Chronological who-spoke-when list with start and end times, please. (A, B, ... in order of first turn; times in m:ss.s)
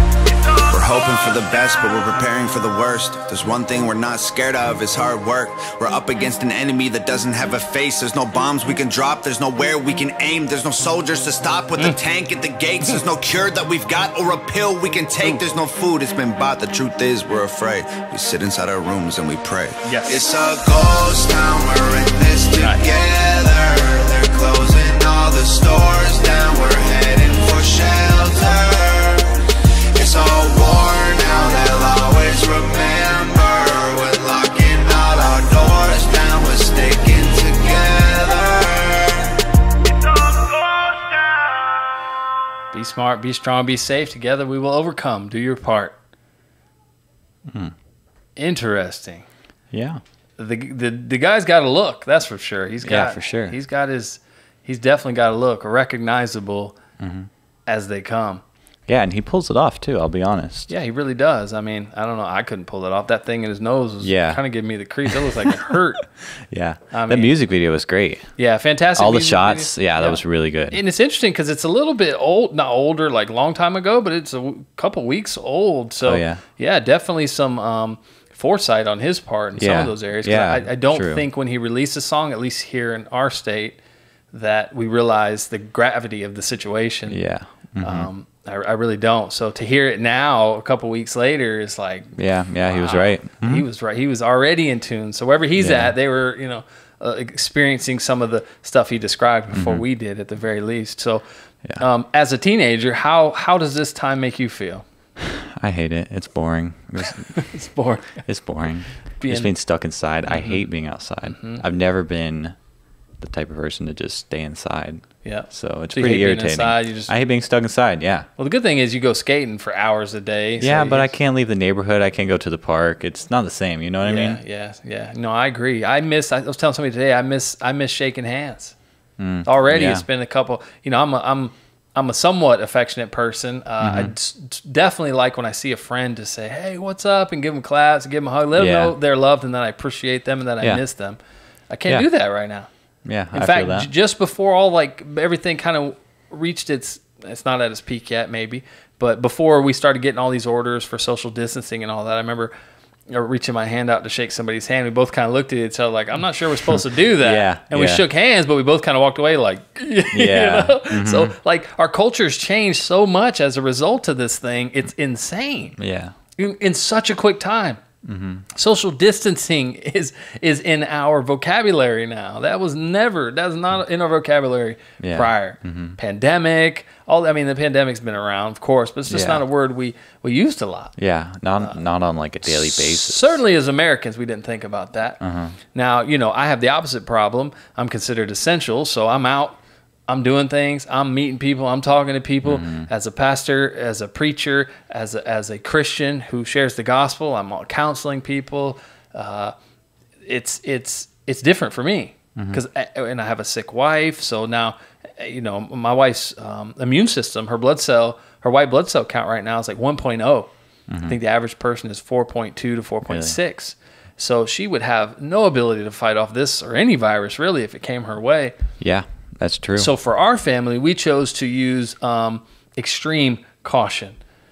0:00.7-0:29.4 A
0:19.8-0:20.2 B
0:22.6-0:22.8 B
0:29.9-0:39.3 A
0:42.7-0:45.9 B
0:47.5-0:47.7 C
0:48.4-0:49.2 B
0:49.7-0:50.0 C
0:50.4-0:56.8 B
0:52.8-0:53.5 C
0:57.0-0:57.3 C
0:57.7-0:58.4 B
0:58.9-1:00.7 C
1:00.7-1:06.0 B
1:04.0-1:04.4 C
1:05.1-1:05.6 C
1:06.5-1:08.3 C
1:06.9-1:07.3 B
1:08.4-1:23.8 B
1:09.0-1:10.8 C
1:16.0-1:16.4 C
1:19.6-1:21.2 C
1:24.3-1:27.2 B
1:27.1-1:28.1 C
1:27.8-1:41.2 B
1:32.2-1:33.6 C
1:35.6-1:35.9 C
1:39.5-1:39.8 C
1:41.8-1:44.8 B
1:45.2-1:47.5 C
1:47.3-1:48.2 B
1:48.2-1:52.5 C
1:49.2-1:49.5 B
1:50.3-1:50.6 B
1:51.3-1:51.6 B
1:53.2-1:58.3 C
1:55.2-1:57.1 B
1:58.4-2:01.1 B
2:00.6-2:04.4 C
2:04.0-2:08.7 B
2:09.2-2:10.0 C
2:09.4-2:21.2 B
2:13.8-2:14.1 C
2:18.5-2:18.9 C
2:21.7-2:22.7 B
2:23.0-2:23.9 C
2:23.3-2:32.5 B
2:33.1-2:45.8 B
2:36.7-2:38.0 C
2:40.1-2:41.3 C
2:45.8-2:46.1 C
2:46.4-2:47.8 B
2:48.0-2:48.4 C
2:48.5-3:00.9 B
2:55.0-2:56.0 C
2:59.1-2:59.4 C
3:01.0-3:03.4 C
3:02.4-3:05.2 B
3:05.2-3:05.5 C
3:05.7-3:19.5 B
3:12.4-3:12.9 C
3:20.2-3:30.5 B
3:30.9-3:31.2 C
3:31.0-3:38.6 B
3:33.1-3:33.4 C
3:38.8-3:39.9 C
3:39.8-3:44.2 B